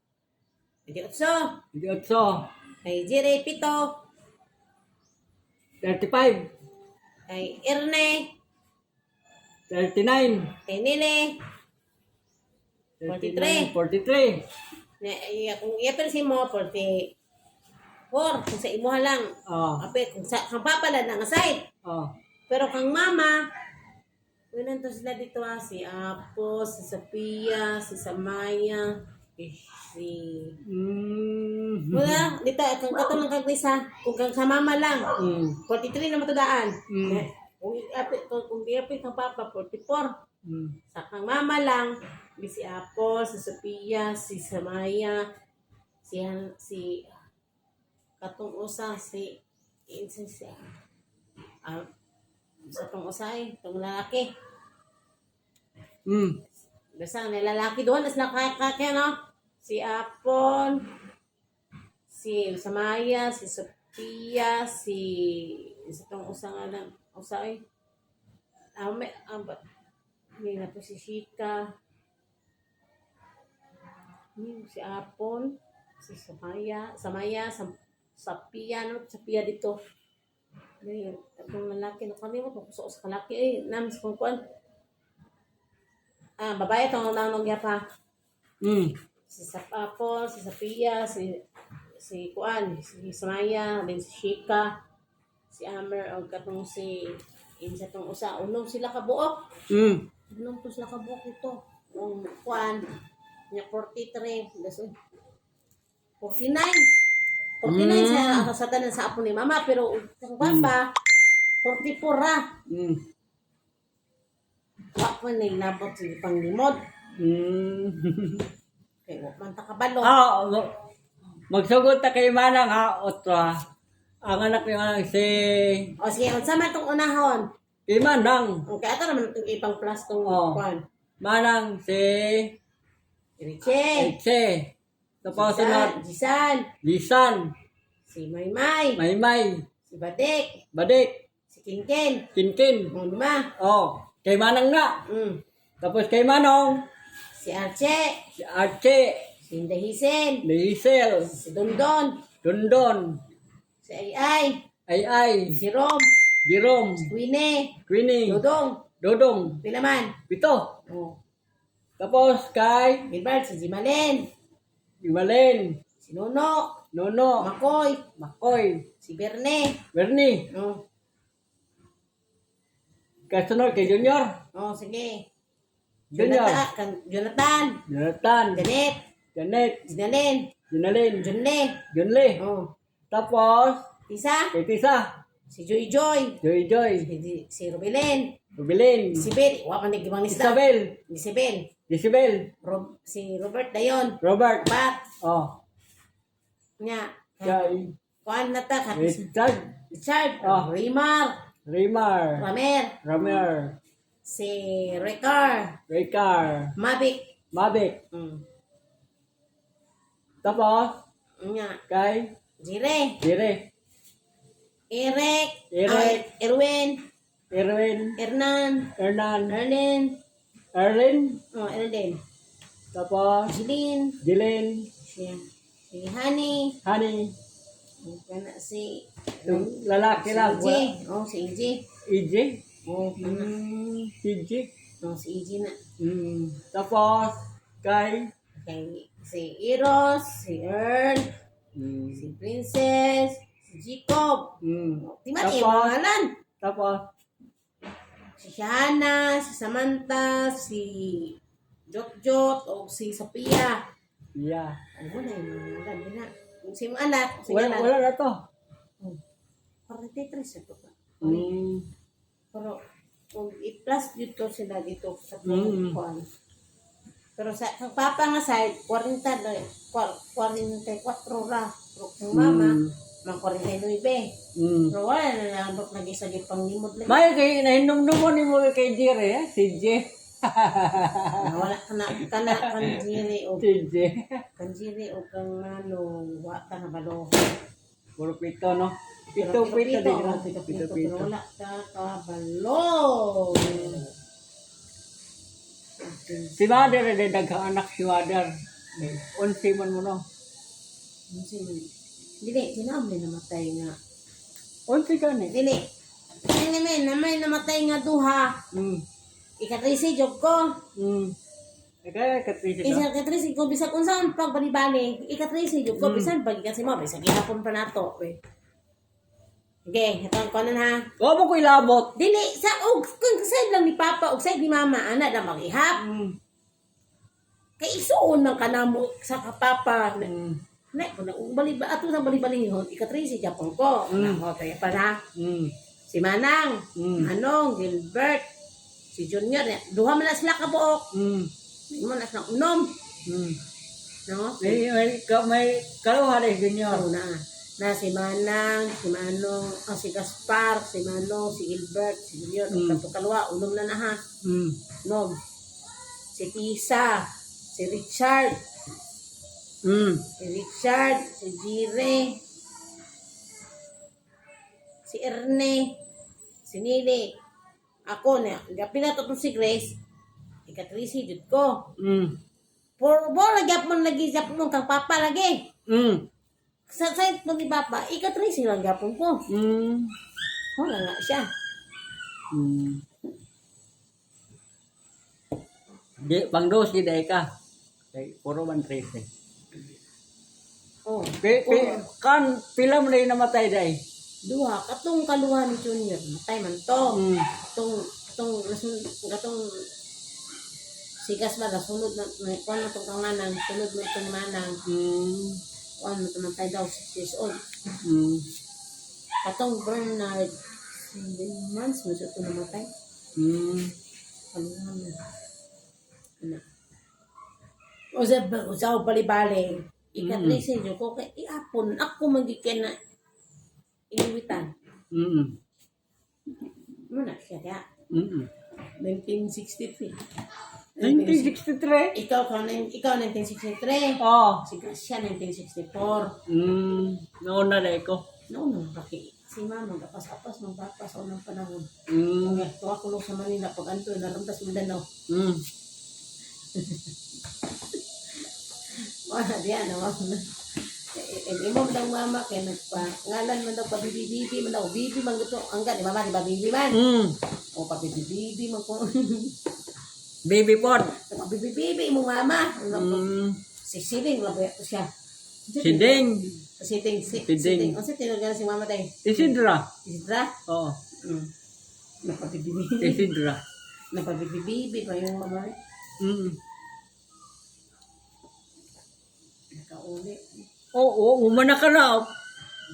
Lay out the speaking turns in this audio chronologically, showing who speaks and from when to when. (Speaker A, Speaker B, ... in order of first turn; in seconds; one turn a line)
Speaker A: 0.8-1.5
Speaker B: 1.7-2.5
Speaker A: 2.8-3.9
Speaker B: 5.8-6.5
Speaker A: 7.3-8.3
Speaker B: 9.7-10.5
Speaker A: 10.7-11.3
Speaker B: 13.0-14.4
Speaker A: 13.0-13.7
Speaker A: 15.0-17.1
Speaker A: 18.1-21.6
Speaker B: 19.5-19.8
Speaker B: 21.8-22.1
Speaker A: 22.5-23.4
Speaker A: 24.5-30.6
Speaker B: 30.6-32.2
Speaker A: 31.9-35.1
Speaker B: 35.2-35.6
Speaker A: 35.6-40.1
Speaker B: 36.9-37.2
Speaker B: 40.4-40.8
Speaker A: 40.9-45.2
Speaker A: 46.0-47.2
Speaker A: 48.2-49.4
Speaker A: 49.9-50.7
Speaker A: 52.7-54.3
Speaker B: 56.0-56.4
Speaker A: 56.9-60.9
Speaker A: 62.1-67.6
Speaker A: 68.8-69.6
Speaker A: 70.4-71.7
Speaker A: 74.3-79.8
Speaker A: 80.8-84.4
Speaker A: 86.4-87.8
Speaker B: 88.6-88.9
Speaker A: 89.3-91.4
Speaker A: 92.0-94.7
Speaker A: 95.5-99.4
Speaker B: 99.7-100.0
Speaker A: 100.3-102.9
Speaker A: 103.5-104.9
Speaker A: 106.2-106.9
Speaker A: 107.6-110.9
Speaker B: 107.6-108.5
Speaker B: 110.4-110.7
Speaker A: 111.6-112.5
Speaker B: 112.7-113.0
Speaker A: 115.0-116.8
Speaker B: 117.2-118.5
Speaker A: 119.0-120.2
Speaker B: 120.0-120.7
Speaker B: 121.5-123.6
Speaker B: 124.2-125.9
Speaker A: 126.0-127.5
Speaker B: 127.9-128.6
Speaker A: 128.7-130.8
Speaker B: 130.2-130.6
Speaker B: 131.2-132.6
Speaker A: 133.4-134.1
Speaker B: 133.9-134.7
Speaker B: 135.2-136.0
Speaker A: 135.3-136.7
Speaker B: 136.8-137.5
Speaker A: 138.1-139.0
Speaker B: 139.0-139.6
Speaker A: 139.9-140.6
Speaker B: 140.7-141.2
Speaker A: 141.5-142.2
Speaker B: 142.3-142.9
Speaker A: 142.9-143.5
Speaker B: 143.6-145.0
Speaker A: 145.1-145.4
Speaker B: 145.8-146.8
Speaker A: 147.4-148.2
Speaker B: 148.4-149.3
Speaker A: 149.4-150.4
Speaker B: 150.4-151.3
Speaker A: 151.2-152.2
Speaker B: 152.4-153.2
Speaker A: 153.8-154.6
Speaker B: 154.9-155.6
Speaker A: 155.5-156.1
Speaker B: 156.4-157.1
Speaker A: 157.0-157.7
Speaker B: 157.9-158.4
Speaker A: 158.3-158.8
Speaker B: 159.0-159.6
Speaker A: 159.6-160.2
Speaker B: 160.3-160.8
Speaker A: 160.9-161.2
Speaker B: 162.0-163.1
Speaker A: 163.1-164.3
Speaker B: 165.0-165.8
Speaker A: 166.0-166.8
Speaker B: 166.9-167.5
Speaker A: 167.4-168.0
Speaker B: 168.2-168.8
Speaker A: 169.0-169.8
Speaker B: 169.9-170.5
Speaker A: 170.5-170.8
Speaker B: 173.3-174.3
Speaker A: 174.5-175.2
Speaker B: 176.1-176.6
Speaker A: 176.2-177.8
Speaker B: 177.9-178.7
Speaker A: 178.5-179.0
Speaker B: 179.3-179.8
Speaker A: 179.8-180.5
Speaker B: 180.7-181.3
Speaker A: 181.2-181.8
Speaker B: 181.9-182.4
Speaker A: 182.4-182.7
Speaker B: 183.1-183.8
Speaker A: 184.1-184.5
Speaker B: 184.5-185.1
Speaker A: 185.5-186.4
Speaker B: 186.4-187.1
Speaker A: 187.0-188.3
Speaker B: 188.6-189.3
Speaker A: 189.1-191.7
Speaker B: 190.3-191.0
Speaker B: 191.9-192.5
Speaker A: 192.6-195.0
Speaker B: 194.2-194.7
Speaker B: 195.2-195.6
Speaker A: 196.8-199.3
Speaker B: 197.4-197.9
Speaker B: 198.9-199.7
Speaker A: 199.9-201.3
Speaker B: 200.4-200.7
Speaker B: 201.7-202.4
Speaker A: 202.3-202.9
Speaker B: 203.0-203.8
Speaker A: 204.2-205.8
Speaker B: 205.9-206.7
Speaker A: 206.8-207.3
Speaker B: 207.5-208.0
Speaker A: 208.1-208.4
Speaker B: 210.4-211.0
Speaker A: 211.4-211.8
Speaker B: 211.9-212.3
Speaker A: 212.6-213.2
Speaker B: 213.2-213.7
Speaker A: 214.9-217.0
Speaker B: 215.7-216.2
Speaker B: 217.5-218.2
Speaker A: 218.2-218.9
Speaker B: 219.0-219.6
Speaker A: 219.5-220.2
Speaker B: 220.7-221.4
Speaker A: 221.5-222.2
Speaker B: 222.9-223.5
Speaker A: 223.5-224.2
Speaker B: 224.2-224.9
Speaker A: 225.0-226.8
Speaker B: 226.8-227.3
Speaker A: 228.0-231.8
Speaker B: 229.4-230.9
Speaker B: 232.1-232.6
Speaker A: 232.8-233.5
Speaker B: 233.2-234.7
Speaker A: 235.0-235.8
Speaker B: 236.0-238.3
Speaker A: 238.6-241.3
Speaker B: 241.7-242.3
Speaker A: 242.1-246.3
Speaker B: 244.6-245.9
Speaker B: 246.6-247.0
Speaker A: 248.4-251.4
Speaker A: 251.9-253.8
Speaker B: 254.3-254.8
Speaker A: 254.9-257.9
Speaker B: 257.5-258.4
Speaker A: 259.9-261.5
Speaker B: 261.2-261.9
Speaker A: 262.5-262.8
Speaker A: 263.3-266.2
Speaker B: 265.4-266.0
Speaker A: 267.4-274.3
Speaker B: 272.3-272.9
Speaker B: 274.6-274.9
Speaker A: 274.9-277.2
Speaker B: 277.1-281.7
Speaker A: 281.4-283.6
Speaker B: 282.2-284.4
Speaker A: 284.6-287.5
Speaker B: 288.2-291.3
Speaker A: 289.4-294.1
Speaker B: 293.5-294.0
Speaker A: 296.0-296.6
Speaker B: 296.6-300.2
Speaker A: 301.3-301.9
Speaker A: 302.4-303.9
Speaker B: 304.9-305.6
Speaker A: 305.5-305.8
Speaker A: 306.4-308.6
Speaker B: 308.7-309.0
Speaker A: 309.6-310.8
Speaker B: 310.9-311.4
Speaker B: 312.0-313.1
Speaker A: 312.8-318.4
Speaker B: 315.9-316.3
Speaker A: 319.9-321.1
Speaker B: 321.2-322.1
Speaker A: 322.1-326.0
Speaker B: 326.0-326.4
Speaker A: 327.8-330.3
Speaker B: 330.2-330.6
Speaker A: 330.9-335.2
Speaker B: 334.1-334.4
Speaker B: 335.4-335.7
Speaker A: 336.1-338.4
Speaker B: 336.9-337.3
Speaker A: 339.1-341.1
Speaker B: 341.1-341.5
Speaker A: 341.9-342.9
Speaker B: 343.3-343.6
Speaker A: 344.3-344.8
Speaker B: 344.6-347.1
Speaker A: 346.9-354.2
Speaker B: 352.7-353.0
Speaker B: 354.4-354.8
Speaker A: 355.0-355.4
Speaker A: 356.3-358.6
Speaker B: 359.8-360.2
Speaker A: 360.4-362.4
Speaker A: 365.1-365.9
Speaker A: 366.6-367.3
Speaker A: 368.1-370.0
Speaker A: 370.7-371.9
Speaker B: 372.0-372.4
Speaker A: 373.0-375.6
Speaker B: 375.9-376.3
Speaker A: 376.9-379.4
Speaker B: 379.5-380.1
Speaker A: 380.8-381.5
Speaker B: 382.5-383.0
Speaker B: 386.2-387.5
Speaker B: 388.1-389.3
Speaker A: 391.1-392.1
Speaker B: 391.4-394.0
Speaker A: 394.4-399.9
Speaker B: 397.1-397.5
Speaker A: 401.2-404.8
Speaker B: 404.9-405.6
Speaker A: 406.0-407.6
Speaker B: 408.0-408.4
Speaker A: 409.4-412.9
Speaker B: 413.4-413.9
Speaker A: 414.5-415.2
Speaker A: 418.1-422.9
Speaker B: 420.2-420.6
Speaker A: 424.1-424.7
Speaker B: 425.1-425.6
Speaker A: 427.1-427.8
Speaker B: 428.1-428.5
Speaker A: 429.0-430.2
Speaker A: 431.0-431.6
Speaker B: 431.0-432.1
Speaker A: 432.1-436.4
Speaker B: 434.2-434.6
Speaker B: 436.5-438.2
Speaker A: 438.5-441.9
Speaker B: 442.1-442.7
Speaker A: 442.4-445.1
Speaker B: 445.3-445.6
Speaker A: 446.7-447.1
Speaker A: 448.9-457.0
Speaker B: 456.9-457.4
Speaker A: 457.7-459.6
Speaker B: 460.4-461.2
Speaker A: 461.2-463.2
Speaker B: 462.9-463.6
Speaker A: 463.8-465.1
Speaker A: 465.7-466.3
Speaker B: 465.8-466.6
Speaker A: 466.8-470.5
Speaker B: 467.4-468.0
Speaker B: 469.2-469.9
Speaker B: 470.7-471.0
Speaker A: 471.2-471.5
Speaker A: 472.2-473.3
Speaker B: 473.0-473.6
Speaker A: 474.1-475.7
Speaker B: 476.2-476.6
Speaker A: 479.7-480.6
Speaker B: 480.9-482.3